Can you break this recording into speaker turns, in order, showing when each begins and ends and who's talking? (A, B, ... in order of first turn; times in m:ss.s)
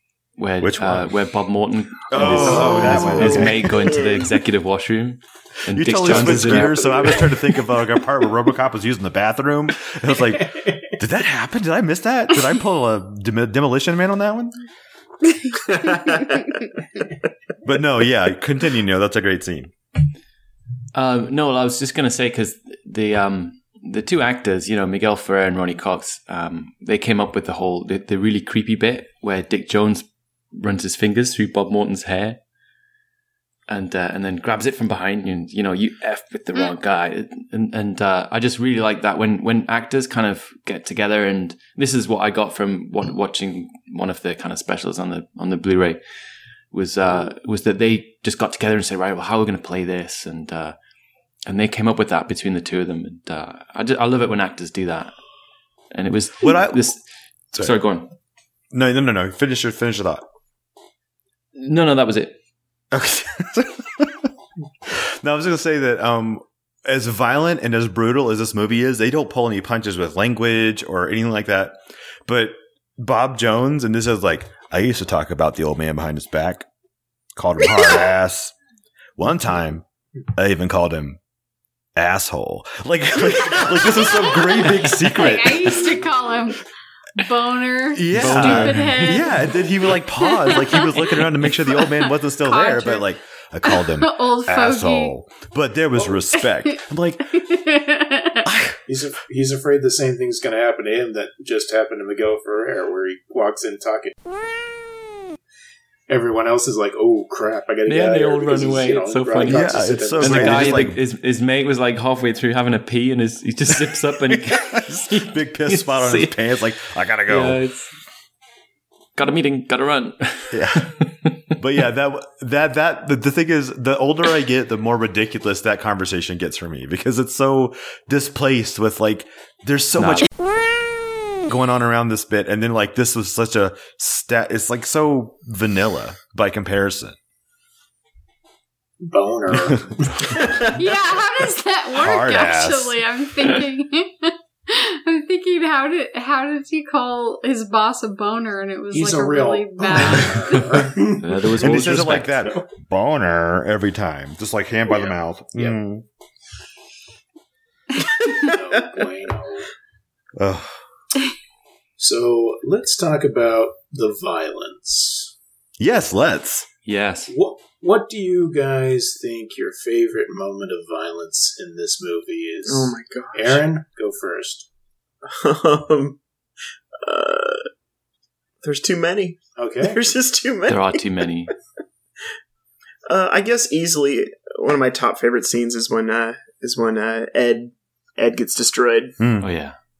0:00.4-0:07.2 A
0:00.6-0:01.1 B
0:02.1-0:03.7 B
0:02.1-0:03.5 C
0:02.3-0:04.3 D
0:05.7-0:14.5 B
0:06.1-0:07.3 C
0:10.1-0:10.9 C
0:15.3-0:16.7 E
0:15.5-0:16.6 D
0:17.6-0:19.7 B
0:20.9-0:32.4 A
0:33.7-0:46.0 A
0:46.7-0:50.8 A
0:51.4-0:55.1 A
0:55.9-0:57.0 A
0:56.4-0:56.8 B
0:57.5-0:58.1 A
0:58.7-1:00.2 B
1:01.5-1:02.4 A
1:02.9-1:04.3 B
1:04.8-1:16.6 B
1:17.4-1:18.5 B
1:19.2-1:21.2 B
1:22.0-1:25.8 B
1:23.9-1:26.6 E
1:25.8-1:26.1 C
1:27.2-1:29.6 E
1:27.9-1:37.4 B
1:28.1-1:29.2 A
1:30.2-1:33.1 E
1:33.7-1:35.1 E
1:36.4-1:36.7 E
1:37.3-1:38.5 E
1:38.4-1:38.8 B
1:38.8-1:44.1 C
1:46.1-1:50.8 C
1:47.9-1:56.5 A
1:49.4-1:51.0 B
1:54.3-1:57.6 B
1:57.2-1:57.9 A
1:59.2-2:01.4 A
2:00.5-2:00.9 B
2:01.6-2:10.3 B
2:10.0-2:10.3 A
2:11.4-2:17.2 B
2:19.0-2:20.4 C
2:19.6-2:19.8 B
2:20.3-2:20.9 D
2:20.8-2:30.8 E
2:21.9-2:23.0 B
2:28.9-2:32.6 C
2:31.1-2:32.4 A
2:31.6-2:36.0 B
2:34.9-2:35.8 C
2:38.0-2:39.0 D
2:38.4-2:39.7 C
2:40.4-2:40.8 B
2:42.0-2:45.3 C
2:45.8-2:46.7 B
2:46.8-2:47.3 A
2:47.3-2:54.7 C
2:52.7-2:53.6 D
2:55.2-2:56.2 D
2:57.0-2:57.7 D
2:58.6-3:01.5 D
2:59.6-3:00.0 C
3:00.7-3:01.5 A
3:03.1-3:09.2 D
3:09.2-3:09.5 B
3:09.4-3:09.8 A